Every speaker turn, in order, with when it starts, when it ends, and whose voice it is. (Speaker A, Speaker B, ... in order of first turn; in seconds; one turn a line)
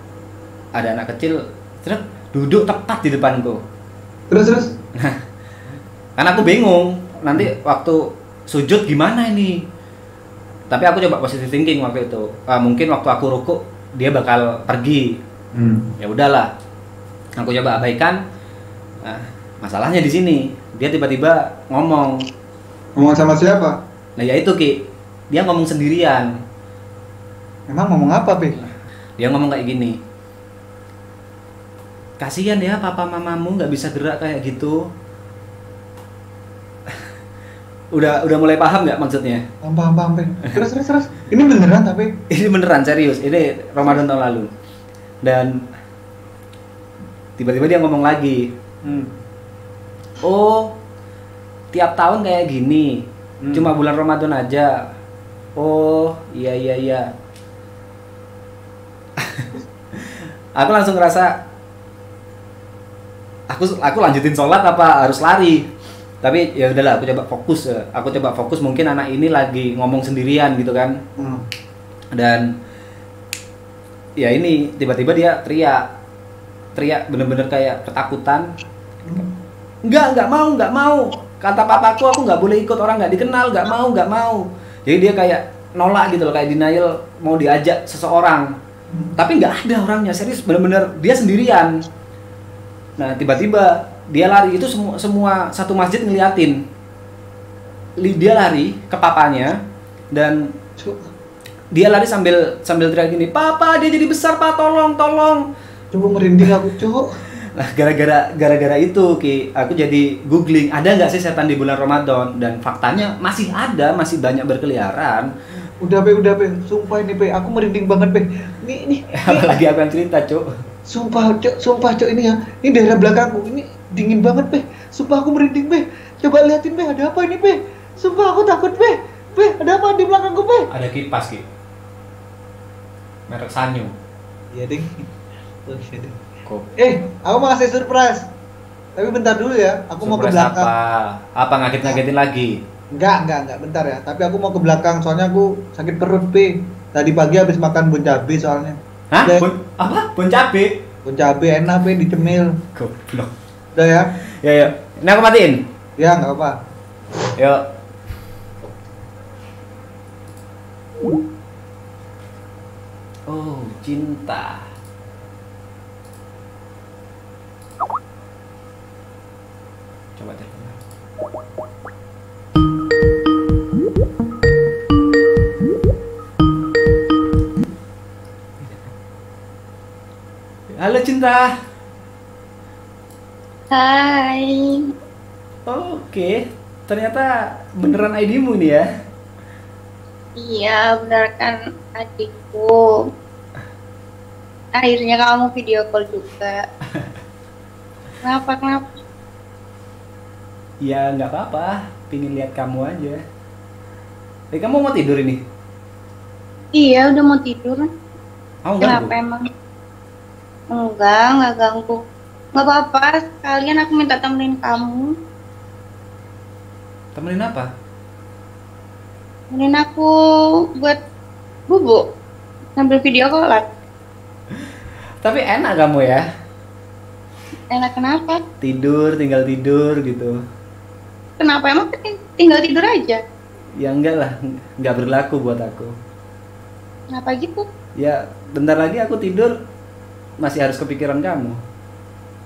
Speaker A: 0.8-3.6
Speaker B: 4.3-4.7
Speaker A: 6.2-9.6
Speaker A: 10.7-15.1
Speaker B: 15.5-15.9
Speaker A: 16.0-16.5
Speaker A: 17.4-18.2
Speaker A: 19.0-22.1
Speaker B: 22.9-23.8
Speaker A: 24.2-24.7
Speaker A: 25.3-26.3
Speaker B: 27.7-28.6
Speaker A: 29.2-29.9
Speaker A: 32.2-34.8
Speaker A: 37.9-39.4
Speaker B: 39.6-42.1
Speaker A: 42.3-44.5
Speaker A: 45.2-45.5
Speaker A: 47.4-48.4
Speaker B: 48.8-49.1
Speaker A: 50.2-50.7
Speaker A: 51.7-52.9
Speaker B: 53.4-53.7
Speaker A: 53.5-54.7
Speaker A: 55.6-57.0
Speaker A: 59.2-61.3
Speaker A: 63.5-65.6
Speaker A: 66.2-70.9
Speaker B: 71.2-71.4
Speaker A: 72.1-72.5
Speaker A: 74.2-75.8
Speaker A: 76.7-78.4
Speaker A: 79.9-88.5
Speaker A: 89.2-91.7
Speaker A: 93.0-96.6
Speaker A: 98.0-99.5
Speaker A: 100.1-100.4
Speaker B: 100.8-101.1
Speaker A: 101.7-105.4
Speaker B: 105.9-107.2
Speaker A: 107.3-115.3
Speaker B: 115.8-119.5
Speaker A: 119.2-120.5
Speaker B: 120.9-130.7
Speaker A: 130.7-131.4
Speaker A: 133.3-133.9
Speaker B: 134.5-135.1
Speaker B: 135.7-136.1
Speaker B: 136.8-138.2
Speaker B: 139.0-140.7
Speaker A: 140.0-142.5
Speaker B: 142.9-149.5
Speaker A: 149.1-150.7
Speaker B: 151.0-152.5
Speaker A: 152.8-153.3
Speaker B: 153.7-154.1
Speaker A: 154.4-155.6
Speaker B: 156.0-156.5
Speaker A: 163.3-164.6
Speaker A: 170.2-170.8
Speaker A: 180.8-181.5
Speaker C: 183.7-184.8
Speaker A: 185.7-186.3
Speaker A: 186.9-188.8
Speaker C: 190.4-192.8
Speaker C: 194.7-196.6
Speaker C: 198.2-198.9
Speaker A: 200.8-203.2
Speaker A: 204.5-205.4
Speaker C: 206.7-207.9
Speaker A: 208.6-209.1
Speaker C: 208.8-209.4
Speaker C: 210.7-212.0
Speaker C: 212.5-215.1
Speaker A: 217.1-217.7
Speaker C: 219.5-220.1
Speaker C: 221.7-222.0
Speaker C: 222.8-223.6
Speaker A: 225.2-226.2
Speaker C: 227.7-228.4
Speaker A: 228.6-230.3
Speaker C: 231.4-233.2
Speaker A: 233.8-235.9
Speaker C: 237.1-237.7
Speaker A: 238.0-239.5
Speaker A: 240.4-241.6